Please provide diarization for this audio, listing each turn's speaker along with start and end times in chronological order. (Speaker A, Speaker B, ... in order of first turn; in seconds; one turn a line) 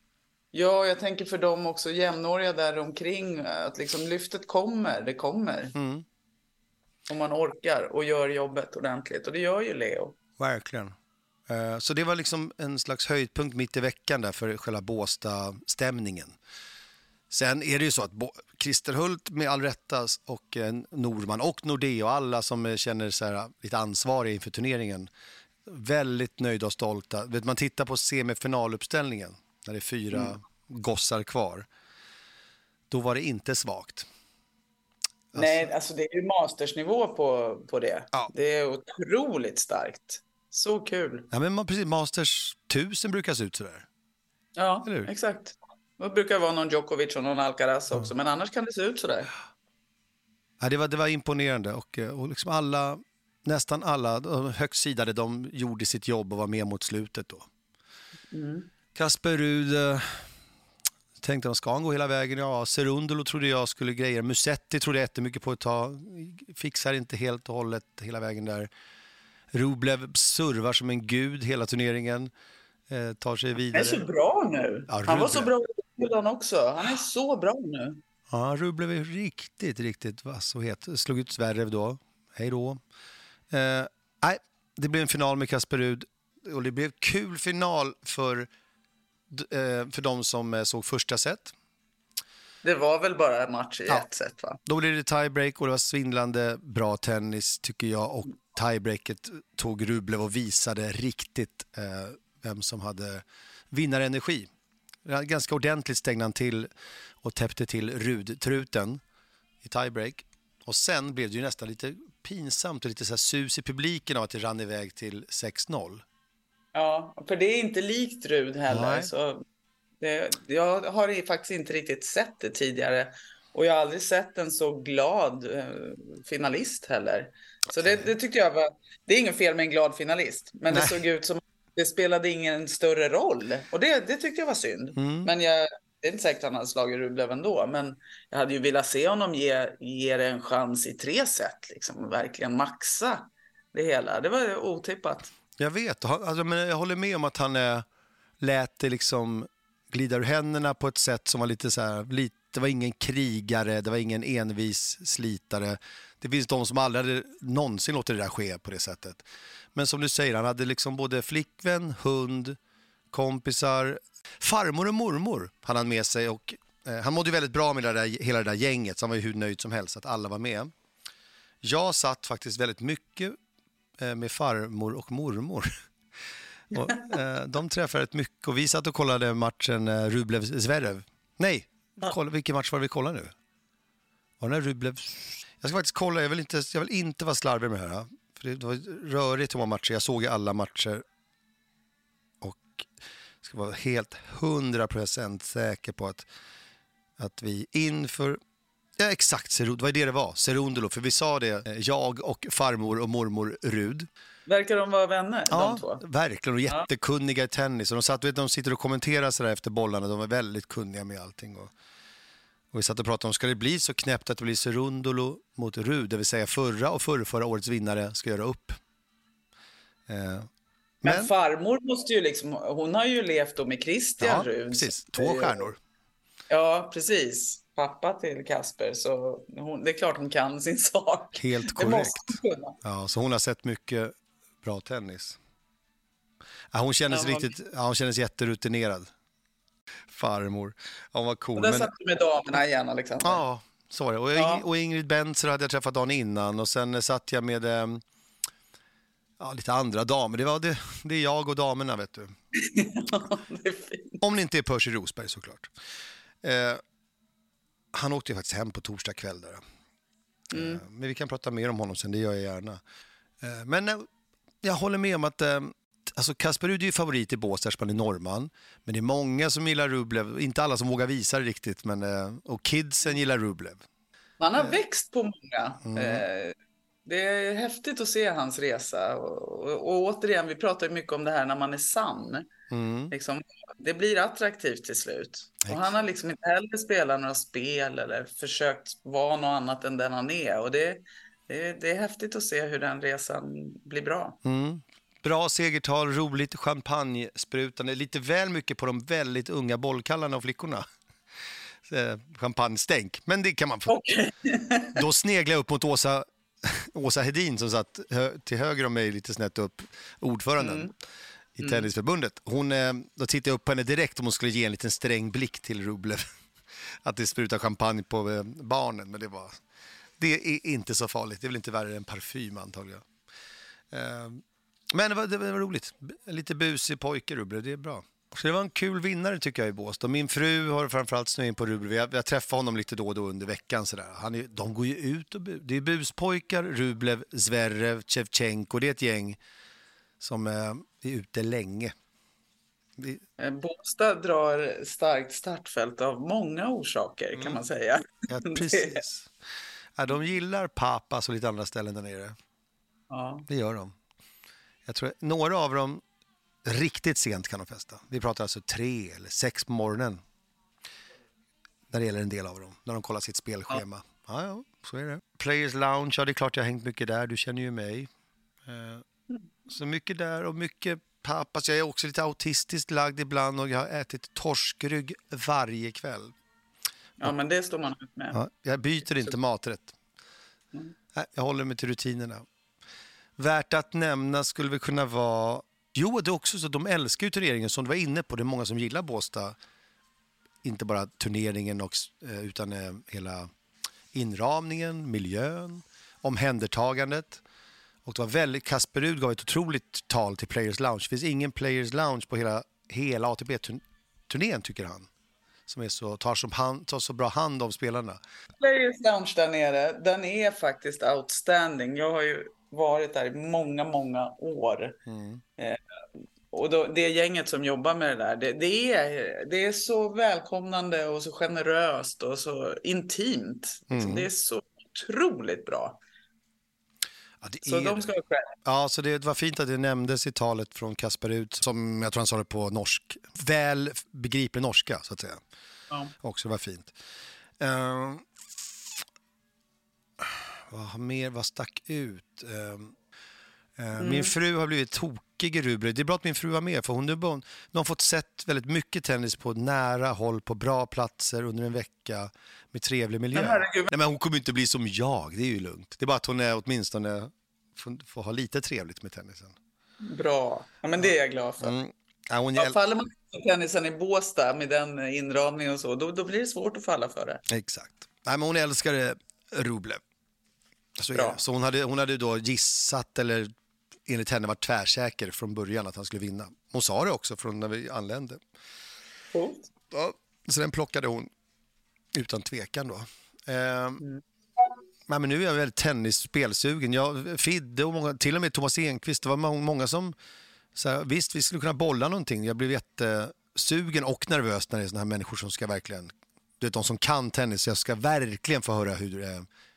Speaker A: 0.5-5.8
Speaker B: 5.8-6.0
Speaker A: 7.1-10.2
Speaker B: 10.4-11.0
Speaker B: 11.5-16.4
Speaker B: 17.3-25.1
Speaker B: 25.7-31.7
Speaker B: 32.9-34.1
Speaker B: 35.3-35.7
Speaker A: 35.4-41.3
Speaker B: 41.3-43.9
Speaker A: 44.6-49.3
Speaker B: 50.6-57.5
Speaker A: 58.3-58.7
Speaker B: 58.9-60.3
Speaker B: 61.2-68.7
Speaker B: 69.5-72.3
Speaker B: 72.9-74.1
Speaker A: 73.7-78.0
Speaker B: 74.9-75.5
Speaker B: 78.3-82.8
Speaker B: 83.5-88.5
Speaker B: 89.3-91.5
Speaker A: 92.6-94.6
Speaker B: 94.7-104.5
Speaker B: 105.0-106.7
Speaker B: 107.2-109.0
Speaker B: 109.6-116.0
Speaker A: 116.7-119.4
Speaker B: 118.7-119.1
Speaker A: 120.0-145.3
Speaker B: 130.7-131.0
Speaker B: 135.0-135.3
Speaker B: 145.6-147.9
Speaker B: 148.4-162.6
Speaker B: 163.1-170.7
Speaker B: 171.6-173.4
Speaker B: 174.0-175.7
Speaker B: 176.7-183.3
Speaker A: 176.8-177.1
Speaker B: 184.4-191.0
Speaker B: 192.4-192.9
Speaker B: 193.4-196.3
Speaker B: 197.2-198.4
Speaker B: 199.0-204.1
Speaker A: 204.5-206.0
Speaker B: 205.5-211.7
Speaker B: 212.7-218.8
Speaker B: 220.1-220.5
Speaker B: 221.0-221.3
Speaker A: 221.0-225.6
Speaker B: 224.2-225.8
Speaker A: 226.5-232.8
Speaker B: 231.4-235.4
Speaker B: 236.7-239.1
Speaker A: 237.1-237.5
Speaker B: 240.1-241.9
Speaker A: 241.6-243.4
Speaker B: 243.2-248.0
Speaker A: 244.3-244.6
Speaker B: 249.4-252.3
Speaker A: 252.5-254.2
Speaker B: 254.2-255.7
Speaker B: 256.4-256.8
Speaker B: 257.9-259.6
Speaker B: 260.5-262.8
Speaker A: 260.5-260.8
Speaker B: 263.4-264.1
Speaker B: 264.6-273.8
Speaker A: 274.4-282.5
Speaker B: 275.9-276.2
Speaker B: 282.7-283.1
Speaker A: 283.1-294.4
Speaker B: 294.4-300.8
Speaker B: 301.9-303.9
Speaker A: 303.9-305.0
Speaker B: 304.9-310.9
Speaker A: 310.6-310.9
Speaker B: 311.6-316.2
Speaker A: 311.6-311.9
Speaker B: 316.8-319.6
Speaker B: 320.2-323.1
Speaker B: 323.9-339.4
Speaker B: 340.2-341.9
Speaker B: 343.0-343.2
Speaker A: 343.4-349.0
Speaker B: 348.3-349.3
Speaker B: 350.0-352.4
Speaker A: 353.1-353.5
Speaker B: 353.5-354.0
Speaker B: 354.9-356.0
Speaker B: 356.6-360.2
Speaker B: 361.9-368.1
Speaker B: 368.6-369.0
Speaker B: 369.7-376.3
Speaker A: 377.2-378.4
Speaker B: 378.3-380.0
Speaker B: 381.1-382.4
Speaker B: 383.4-389.6
Speaker B: 390.6-393.5
Speaker B: 394.1-397.4
Speaker B: 398.1-405.1
Speaker B: 405.7-408.2
Speaker A: 408.6-415.0
Speaker B: 415.1-415.4
Speaker A: 416.5-426.0
Speaker B: 423.9-424.3
Speaker B: 427.4-428.1
Speaker A: 427.6-428.6
Speaker B: 428.6-435.4
Speaker B: 436.2-436.9
Speaker B: 437.6-438.3
Speaker B: 440.2-442.9
Speaker B: 443.8-459.6
Speaker A: 444.0-444.3
Speaker A: 453.3-453.9
Speaker A: 460.0-461.8
Speaker B: 461.0-462.8
Speaker A: 462.6-467.4
Speaker B: 467.5-470.0
Speaker B: 471.0-473.5
Speaker A: 471.1-471.4
Speaker B: 474.1-478.4
Speaker A: 479.3-479.7
Speaker B: 479.9-481.3
Speaker B: 482.1-484.0
Speaker B: 485.1-490.1
Speaker B: 490.8-499.5